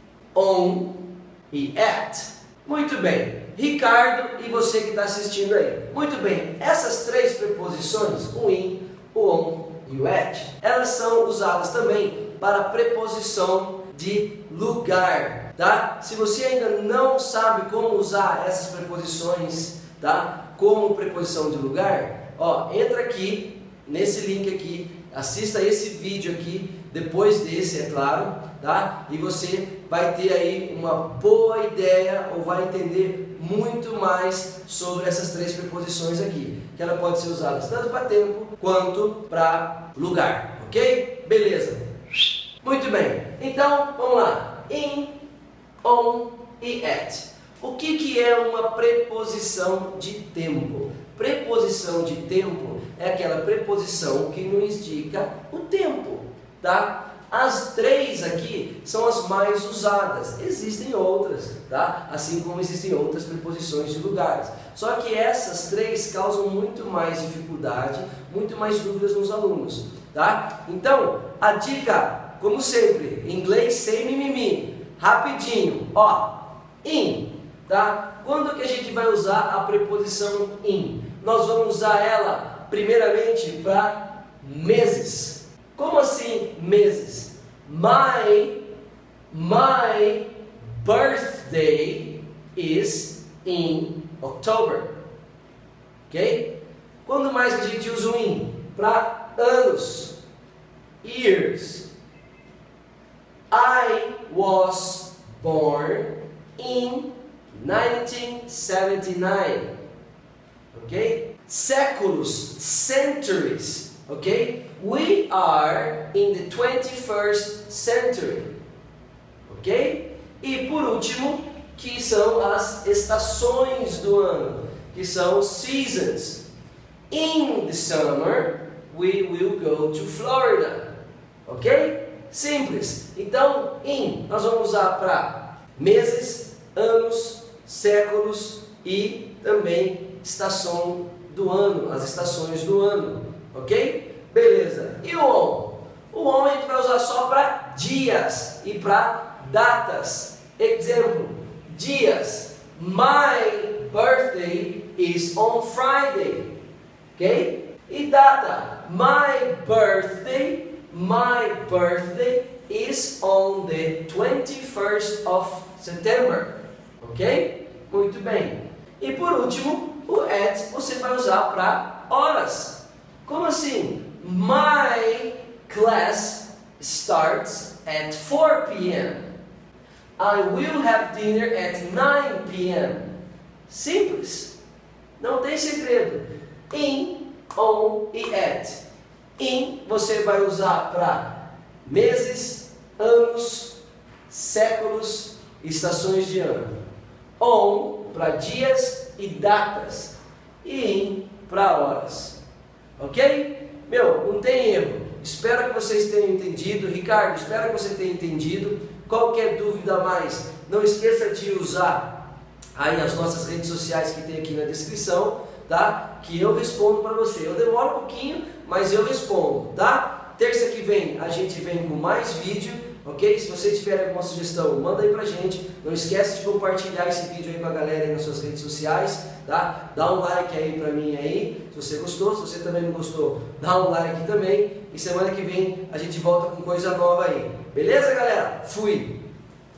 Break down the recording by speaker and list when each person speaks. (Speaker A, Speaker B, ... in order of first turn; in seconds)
Speaker A: 0.3-41.8, 42.6-45.2, 45.8-88.6, 89.3-94.9, 96.1-96.5, 97.0-100.2, 101.0-101.9, 103.5-109.7, 110.7-118.5, 119.5-126.4, 127.1-130.9, 131.4-156.5, 157.2-179.3, 180.2-183.1, 183.7-184.5, 185.2-188.8, 189.4-196.7, 197.4-202.4, 203.0-212.1, 212.7-239.2